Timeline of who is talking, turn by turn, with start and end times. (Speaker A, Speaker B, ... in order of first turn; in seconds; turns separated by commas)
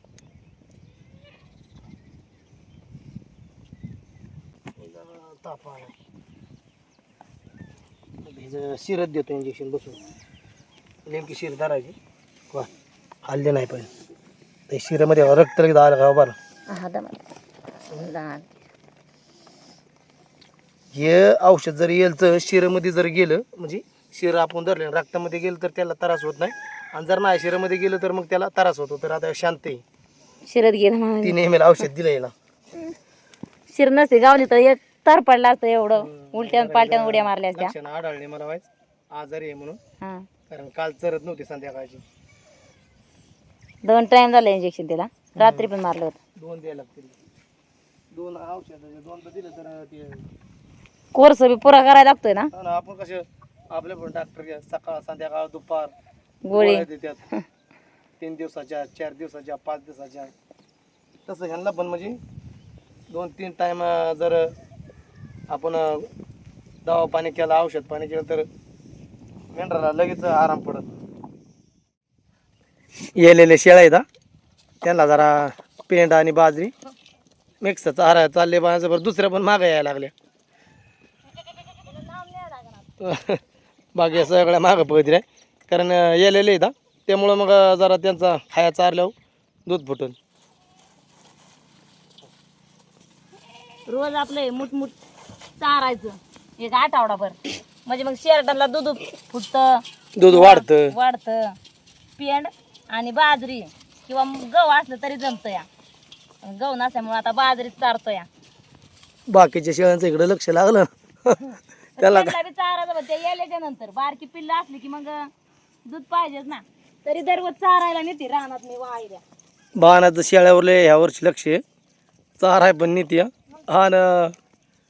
Speaker A: 4.8-5.9, Speaker A: 8.2-10.0, Speaker A: 11.1-11.9, Speaker A: 13.2-13.9, Speaker A: 14.7-16.4, Speaker B: 16.7-17.2, Speaker B: 17.9-18.5, Speaker A: 20.9-29.8, Speaker B: 30.4-31.4, Speaker A: 31.2-32.3, Speaker B: 33.7-37.7, Speaker A: 36.0-39.8, Speaker B: 40.0-40.3, Speaker A: 40.5-42.0, Speaker B: 43.8-46.2, Speaker A: 45.4-45.7, Speaker A: 46.4-47.2, Speaker A: 48.1-50.2, Speaker B: 51.1-52.5, Speaker A: 52.5-55.9, Speaker B: 56.4-57.4, Speaker A: 56.5-57.2, Speaker A: 58.2-60.3, Speaker A: 61.2-62.2, Speaker A: 63.1-64.5, Speaker A: 65.5-66.1, Speaker A: 66.8-68.5, Speaker A: 69.5-70.9, Speaker A: 73.2-74.0, Speaker A: 74.8-76.7, Speaker A: 77.6-80.1, Speaker B: 81.9-82.8, Speaker A: 83.0-83.4, Speaker A: 83.9-89.1, Speaker A: 89.7-90.2, Speaker B: 93.9-95.0, Speaker B: 95.6-101.5, Speaker A: 100.2-100.9, Speaker B: 102.2-105.7, Speaker B: 106.4-108.3, Speaker A: 109.3-112.4, Speaker B: 112.0-115.3, Speaker B: 115.9-119.2, Speaker A: 119.7-121.6, Speaker A: 122.4-124.3